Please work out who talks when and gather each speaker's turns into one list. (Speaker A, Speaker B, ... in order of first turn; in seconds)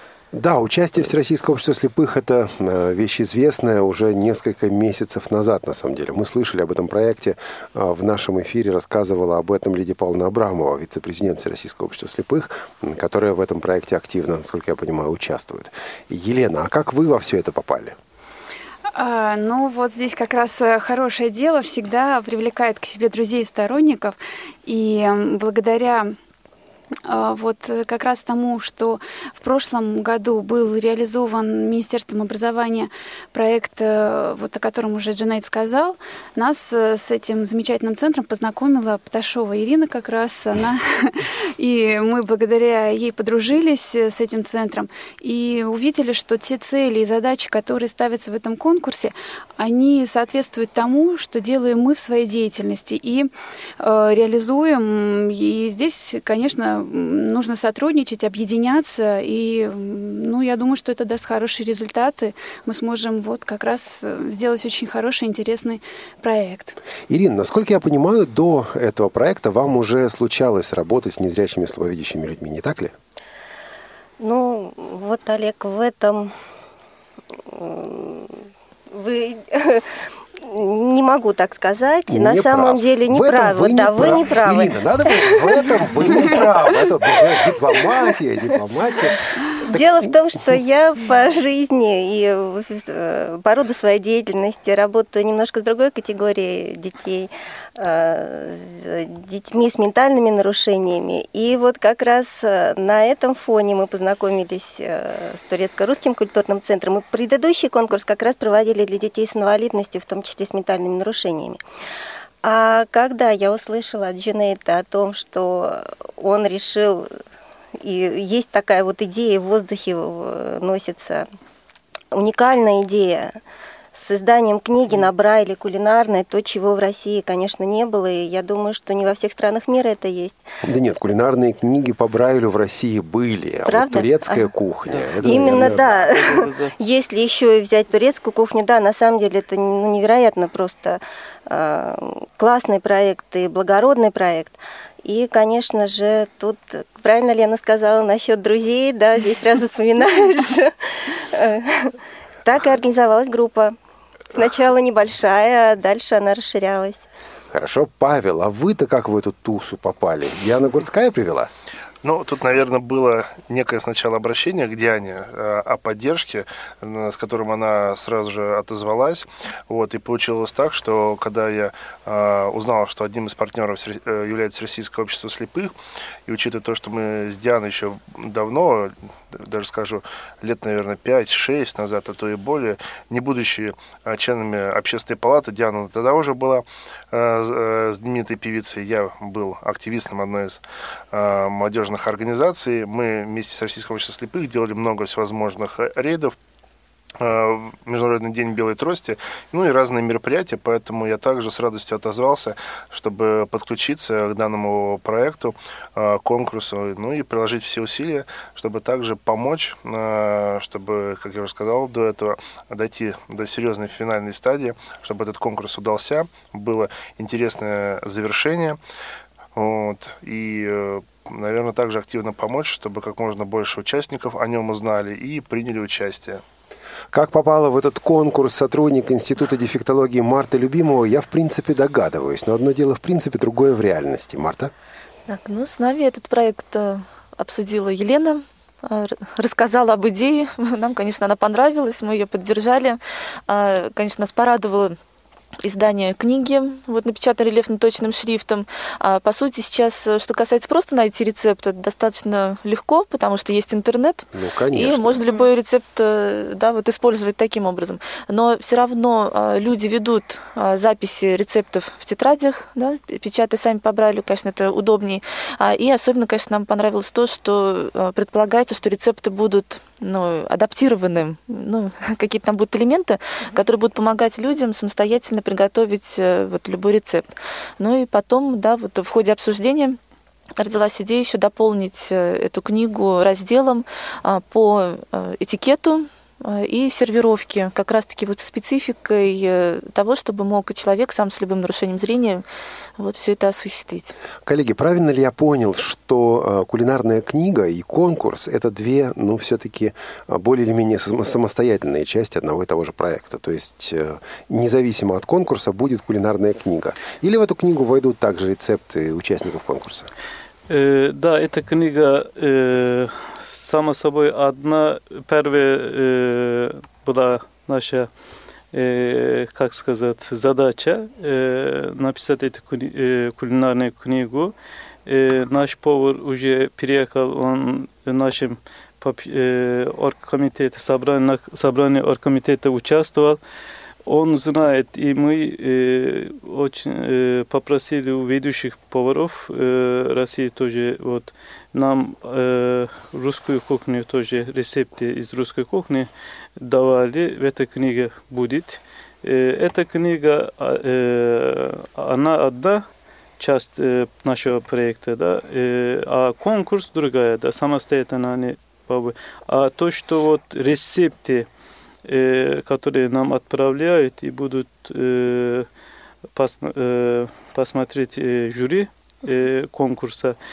Speaker A: 0.3-17.9, 67.1-72.9, 82.1-89.2, 130.6-136.1, 157.5-161.5, 227.1-234.7, 254.3-255.2, 294.4-310.1
Speaker B: 18.9-26.2, 27.0-66.8
Speaker C: 74.2-76.3, 77.5-78.4, 78.9-86.7, 89.6-111.6, 112.4-117.1, 117.8-121.3, 122.1-123.4, 123.9-130.4, 133.7-134.5, 135.2-153.8, 154.3-157.0
Speaker D: 134.9-136.7, 310.7-318.1, 318.7-324.5, 325.1-333.4, 334.1-352.9, 353.4-361.5, 362.1-365.7, 366.3-370.4
Speaker E: 162.0-175.7, 176.3-190.6, 191.1-196.3, 197.2-218.8, 219.6-226.4
Speaker F: 235.3-245.0, 245.6-277.3, 277.8-280.0, 280.6-292.4, 293.0-294.1